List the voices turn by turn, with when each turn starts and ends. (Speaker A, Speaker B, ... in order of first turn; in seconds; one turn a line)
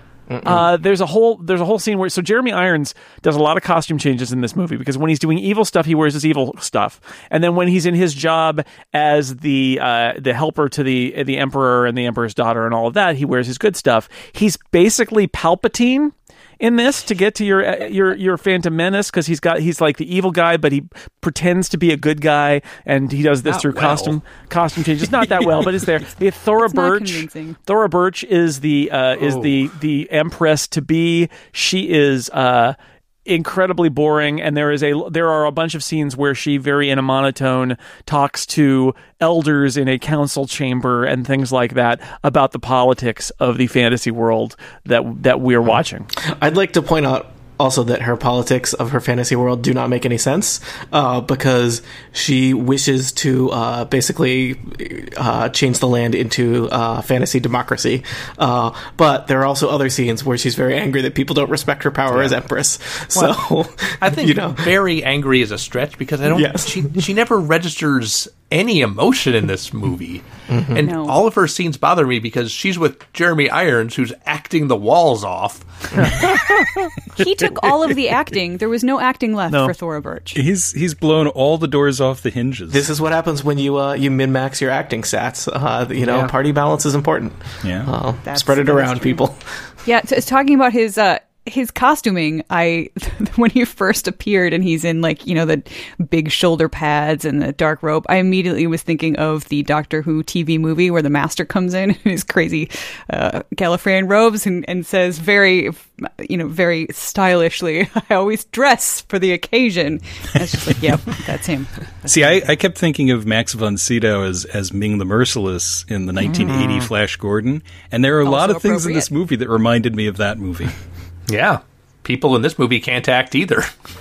Speaker A: 0.3-0.7
Speaker B: 0.4-46.1
Speaker C: 23.4-24.2
Speaker D: 26.6-27.6
Speaker A: 46.2-64.7
Speaker C: 63.1-63.5
Speaker C: 64.0-75.7
Speaker A: 66.3-66.9
Speaker A: 70.5-70.8
Speaker D: 70.8-71.2
Speaker E: 76.5-76.8
Speaker D: 77.1-80.4
Speaker E: 80.3-82.8
Speaker A: 82.7-89.4
Speaker E: 87.6-87.9
Speaker D: 88.3-89.2
Speaker D: 89.8-112.2
Speaker E: 112.0-120.7
Speaker B: 116.3-116.9
Speaker D: 118.2-119.1
Speaker C: 121.3-123.7